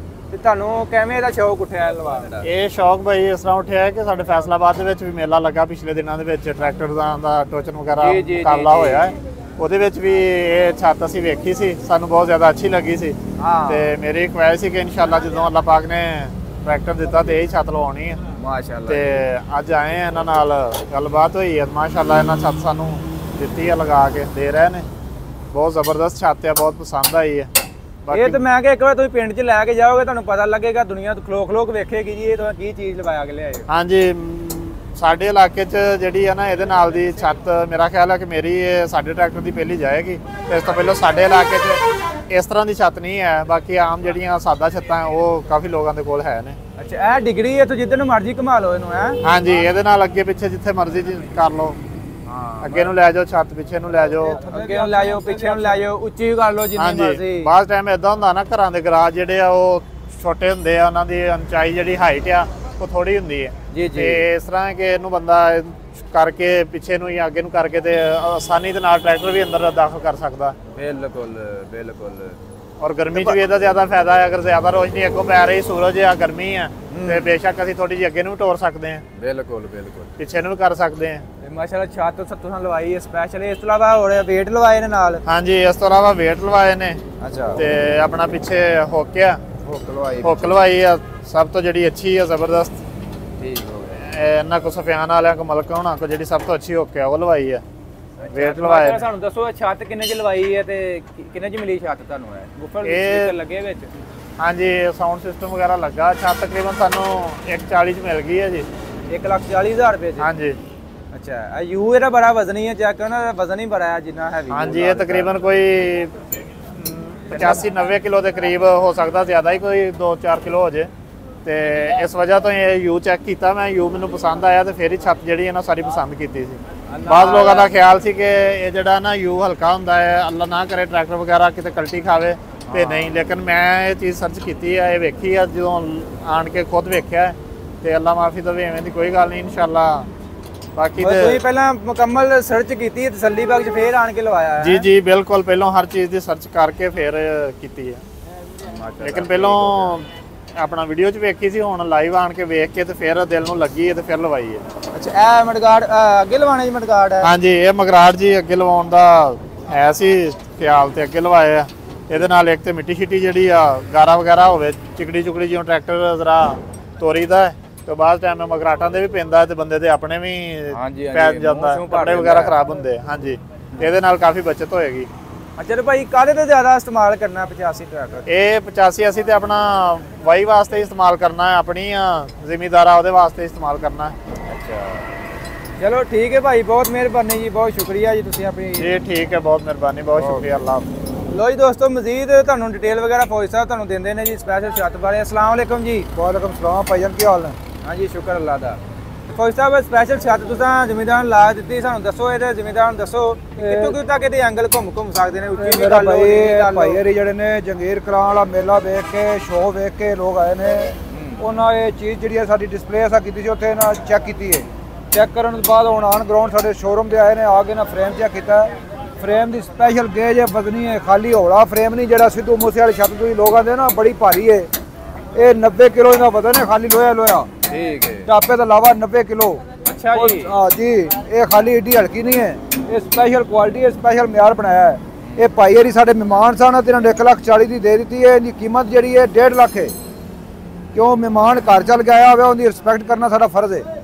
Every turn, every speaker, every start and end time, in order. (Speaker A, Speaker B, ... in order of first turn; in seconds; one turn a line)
Speaker A: 0.3-2.5
Speaker B: 2.4-18.2
Speaker A: 8.0-9.1
Speaker A: 13.4-14.0
Speaker A: 18.4-19.2
Speaker B: 18.9-24.9
Speaker B: 25.5-27.5
Speaker B: 28.1-28.4
Speaker A: 28.1-33.7
Speaker B: 33.7-46.6
Speaker A: 40.6-41.0
Speaker A: 46.8-49.2
Speaker B: 49.2-51.8
Speaker A: 52.3-53.0
Speaker B: 52.6-54.4
Speaker C: 54.2-55.9
Speaker A: 54.5-57.5
Speaker B: 56.8-70.6
Speaker A: 63.7-64.2
Speaker A: 70.7-72.4
Speaker B: 72.8-79.0
Speaker A: 73.1-73.7
Speaker A: 76.9-77.3
Speaker A: 79.2-80.1
Speaker B: 80.2-81.2
Speaker A: 81.4-85.2
Speaker B: 85.3-87.0
Speaker A: 87.2-87.6
Speaker B: 87.6-89.4
Speaker A: 89.6-90.6
Speaker B: 90.2-92.8
Speaker A: 93.4-94.0
Speaker B: 94.0-97.6
Speaker A: 98.2-103.9
Speaker B: 98.3-99.1
Speaker B: 102.8-103.3
Speaker B: 104.4-108.7
Speaker A: 109.1-110.3
Speaker B: 110.2-110.6
Speaker A: 111.1-115.3
Speaker B: 114.5-116.2
Speaker B: 116.7-120.9
Speaker A: 117.3-117.6
Speaker B: 121.4-140.1
Speaker A: 126.9-127.8
Speaker A: 132.7-133.2
Speaker B: 140.8-141.4
Speaker A: 141.0-144.9
Speaker B: 144.6-148.0
Speaker A: 148.6-150.0
Speaker B: 149.0-154.7
Speaker A: 154.9-157.3
Speaker B: 157.2-175.1
Speaker A: 170.7-172.6
Speaker A: 175.6-178.3
Speaker B: 178.3-184.2
Speaker A: 184.5-185.1
Speaker A: 185.8-188.9
Speaker B: 188.8-190.9
Speaker A: 190.2-190.5
Speaker A: 191.3-196.1
Speaker C: 196.1-197.6
Speaker A: 197.8-207.0
Speaker C: 203.6-204.0
Speaker C: 205.6-224.7
Speaker A: 211.1-211.4
Speaker C: 225.3-227.5
Speaker A: 227.7-228.3
Speaker C: 228.3-229.6
Speaker A: 229.8-230.5
Speaker C: 230.1-239.9
Speaker A: 235.2-235.5
Speaker C: 240.9-243.8